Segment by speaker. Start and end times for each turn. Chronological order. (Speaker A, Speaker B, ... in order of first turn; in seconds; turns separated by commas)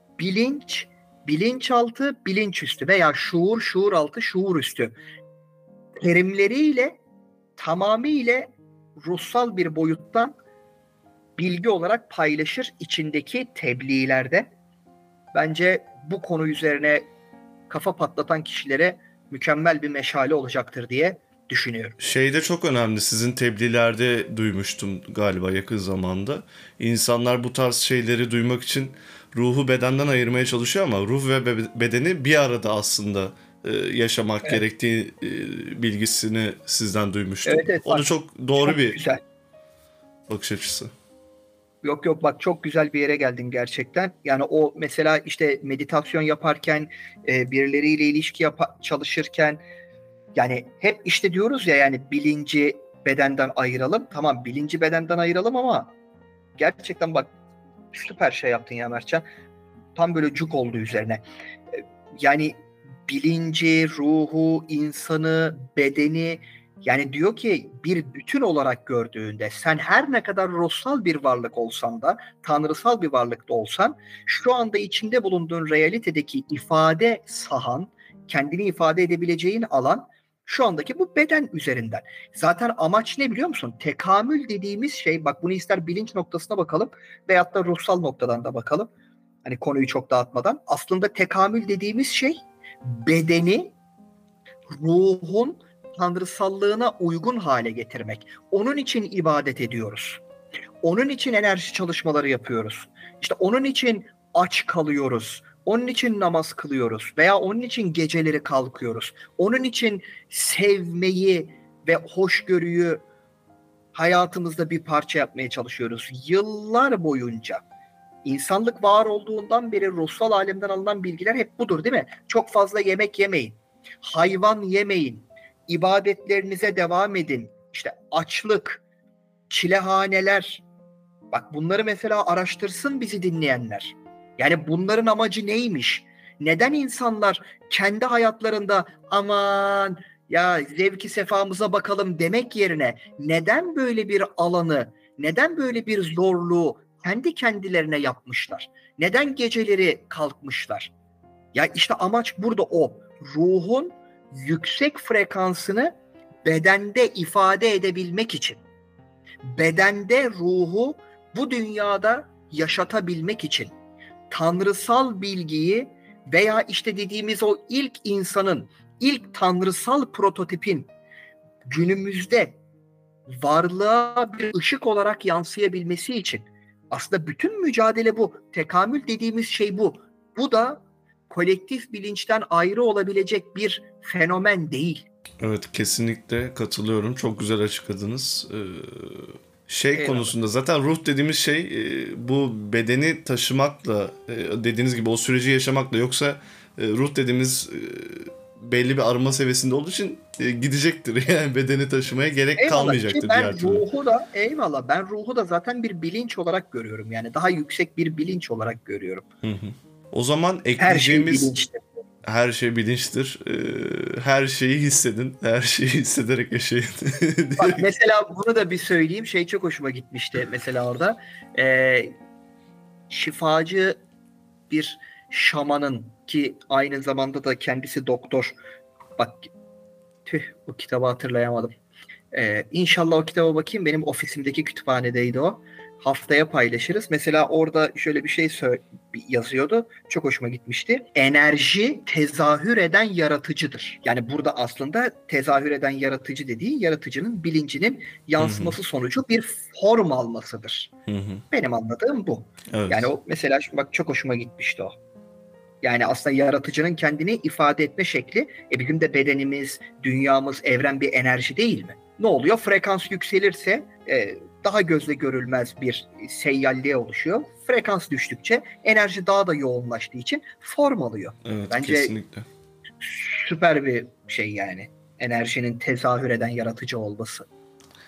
Speaker A: 0.2-5.0, Speaker A: 6.0-7.0, Speaker A: 7.6-10.3, Speaker A: 11.4-14.5, Speaker A: 15.3-17.0, Speaker A: 17.7-22.0, Speaker B: 22.0-39.0, Speaker A: 37.5-38.1, Speaker A: 38.6-39.2, Speaker B: 40.3-40.9, Speaker A: 41.8-49.6, Speaker A: 50.4-55.9, Speaker A: 56.6-57.3, Speaker A: 57.9-59.2, Speaker A: 60.0-61.2, Speaker A: 61.8-88.9, Speaker A: 89.5-93.7, Speaker A: 94.7-100.2, Speaker A: 100.8-113.0, Speaker A: 113.9-117.6, Speaker A: 118.2-128.8, Speaker A: 129.5-130.6, Speaker A: 131.3-150.9, Speaker A: 151.5-155.9, Speaker A: 156.4-158.6, Speaker A: 159.4-163.7, Speaker A: 164.3-170.9, Speaker A: 171.7-172.6, Speaker A: 173.3-185.1, Speaker B: 185.4-203.8, Speaker A: 189.9-190.3, Speaker A: 202.6-209.2, Speaker B: 209.4-211.5, Speaker A: 210.8-211.9, Speaker B: 212.2-217.8, Speaker A: 217.6-222.1, Speaker A: 223.1-224.0, Speaker A: 224.7-228.6, Speaker A: 229.2-229.5, Speaker A: 230.3-231.7, Speaker A: 232.3-250.9, Speaker B: 248.4-248.8, Speaker B: 251.1-251.4, Speaker A: 251.5-255.0, Speaker B: 252.7-253.1, Speaker A: 255.8-272.1, Speaker B: 271.5-272.5, Speaker A: 273.0-277.5